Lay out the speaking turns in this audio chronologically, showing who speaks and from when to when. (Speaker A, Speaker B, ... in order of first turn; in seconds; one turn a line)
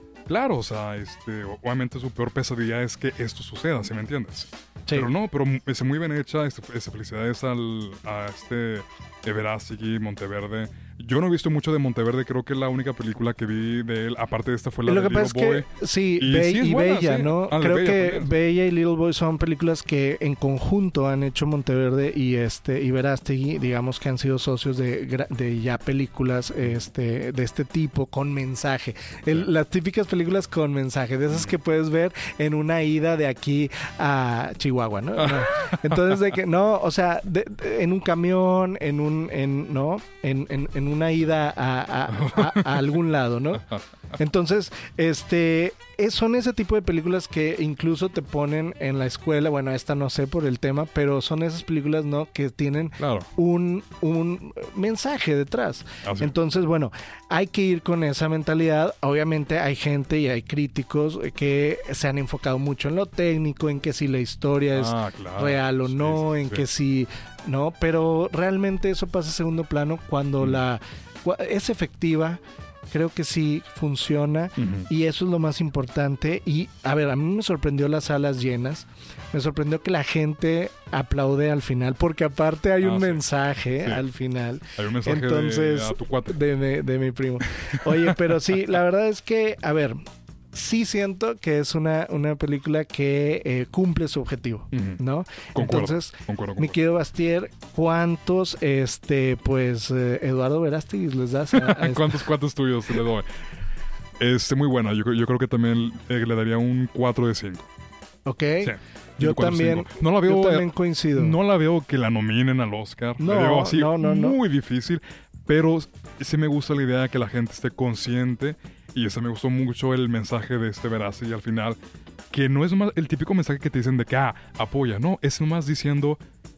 Speaker A: 0.3-18.3
Speaker B: 14.8-90.0
Speaker A: 35.2-36.2
Speaker A: 42.1-43.0
Speaker A: 53.0-53.3
Speaker A: 56.0-56.3
Speaker A: 64.7-66.7
Speaker A: 74.6-74.9
Speaker A: 82.8-83.2
Speaker A: 84.7-86.4
Speaker A: 87.6-88.4
Speaker B: 90.5-102.2
Speaker A: 94.7-95.0
Speaker A: 95.5-96.8
Speaker A: 101.5-103.3
Speaker A: 104.2-107.7
Speaker B: 108.2-111.3
Speaker A: 108.6-121.8
Speaker B: 113.2-114.4
Speaker A: 122.3-126.2